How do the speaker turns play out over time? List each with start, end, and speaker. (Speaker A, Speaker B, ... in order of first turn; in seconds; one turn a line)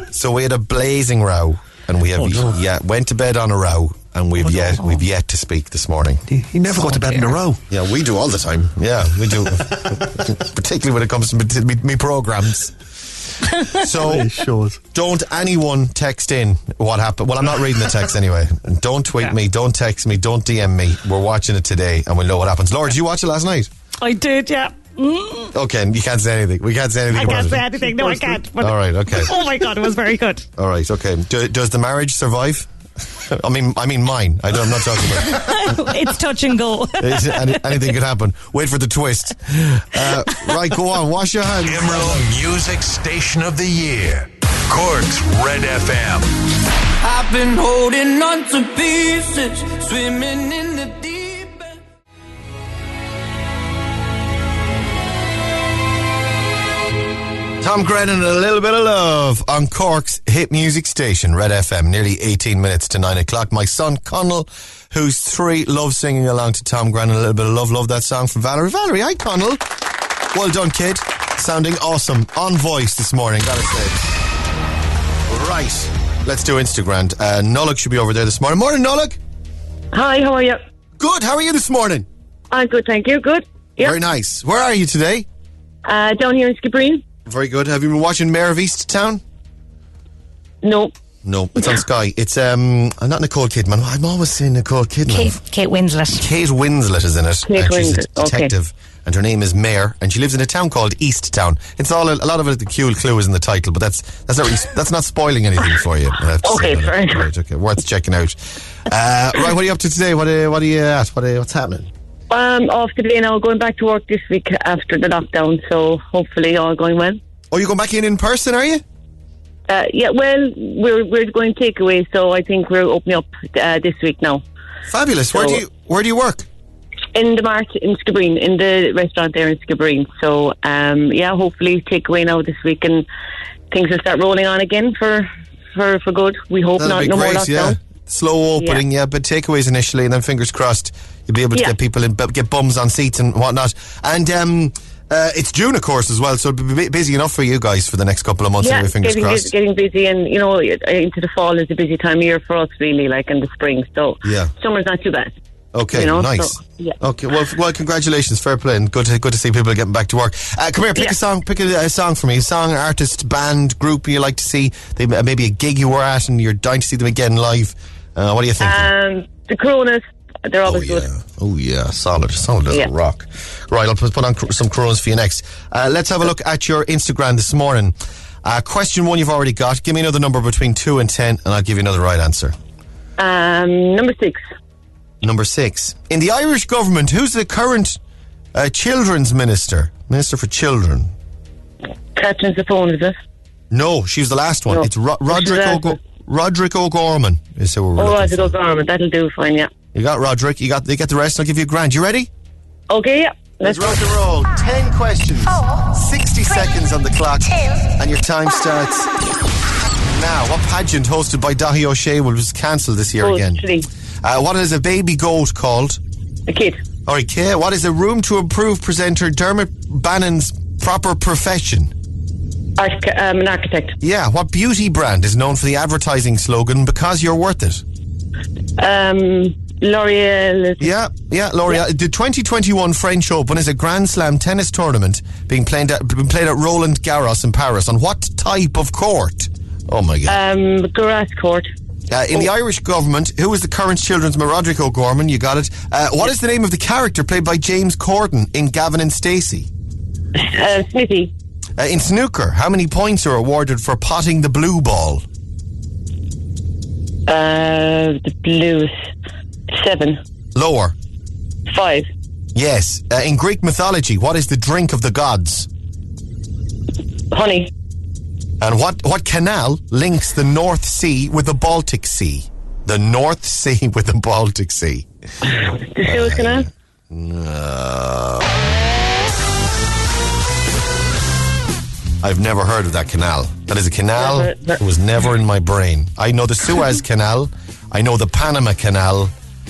Speaker A: 0.1-6.2
Speaker B: 2.2-2.5
Speaker B: 4.5-4.8
Speaker B: 6.3-7.6
Speaker C: 6.8-7.4
Speaker A: 7.7-12.8
Speaker A: 13.7-14.3
Speaker B: 13.9-14.8
Speaker A: 14.9-23.7
Speaker C: 24.0-25.5
Speaker A: 25.5-27.6
Speaker C: 27.1-30.5
Speaker B: 27.3-28.4
Speaker A: 28.6-29.3
Speaker A: 30.6-32.7
Speaker A: 33.2-35.9
Speaker C: 35.3-37.9
Speaker A: 37.0-42.2
Speaker D: 41.6-46.3
Speaker E: 47.0-51.8
Speaker A: 57.6-69.6
Speaker A: 70.3-74.0
Speaker A: 75.3-79.2
Speaker F: 79.9-80.6
Speaker A: 81.0-82.1
Speaker F: 82.5-84.0
Speaker A: 83.8-85.3
Speaker F: 85.9-87.0
Speaker A: 87.3-89.2
Speaker F: 90.6-90.9
Speaker A: 91.2-95.4
Speaker C: 95.1-96.2
Speaker A: 96.2-111.9
Speaker F: 97.5-98.5
Speaker F: 106.4-107.3
Speaker F: 112.3-117.2
Speaker A: 117.5-118.8
Speaker F: 119.7-124.4
Speaker A: 124.9-126.5
Speaker F: 125.3-125.6
Speaker F: 127.2-133.1
Speaker F: 133.7-137.8
Speaker A: 136.8-149.5
Speaker F: 138.6-138.8
Speaker F: 148.6-155.3
Speaker A: 154.2-154.5
Speaker A: 155.7-168.9
Speaker F: 155.9-157.0
Speaker F: 168.6-171.1
Speaker A: 170.7-182.6
Speaker F: 183.2-184.4
Speaker A: 185.2-188.0
Speaker A: 188.5-191.1
Speaker F: 192.2-193.2
Speaker A: 193.7-198.6
Speaker F: 194.7-196.0
Speaker F: 198.0-199.7
Speaker A: 199.9-202.3
Speaker F: 202.9-204.1
Speaker A: 203.6-209.1
Speaker A: 210.1-213.6
Speaker F: 213.2-213.9
Speaker A: 214.2-216.0
Speaker F: 216.5-216.8
Speaker A: 217.1-221.9
Speaker F: 222.8-224.0
Speaker A: 224.0-227.8
Speaker F: 228.8-230.9
Speaker A: 230.8-240.4
Speaker F: 240.3-241.7
Speaker A: 242.1-249.7
Speaker F: 250.4-251.3
Speaker A: 251.8-255.2
Speaker F: 257.3-258.9
Speaker F: 259.7-260.2
Speaker A: 260.6-261.0
Speaker F: 261.7-262.1
Speaker A: 262.6-265.7
Speaker F: 267.3-267.7
Speaker A: 268.6-275.5
Speaker F: 276.0-276.7
Speaker A: 276.0-278.6
Speaker A: 282.2-289.3
Speaker F: 284.2-284.8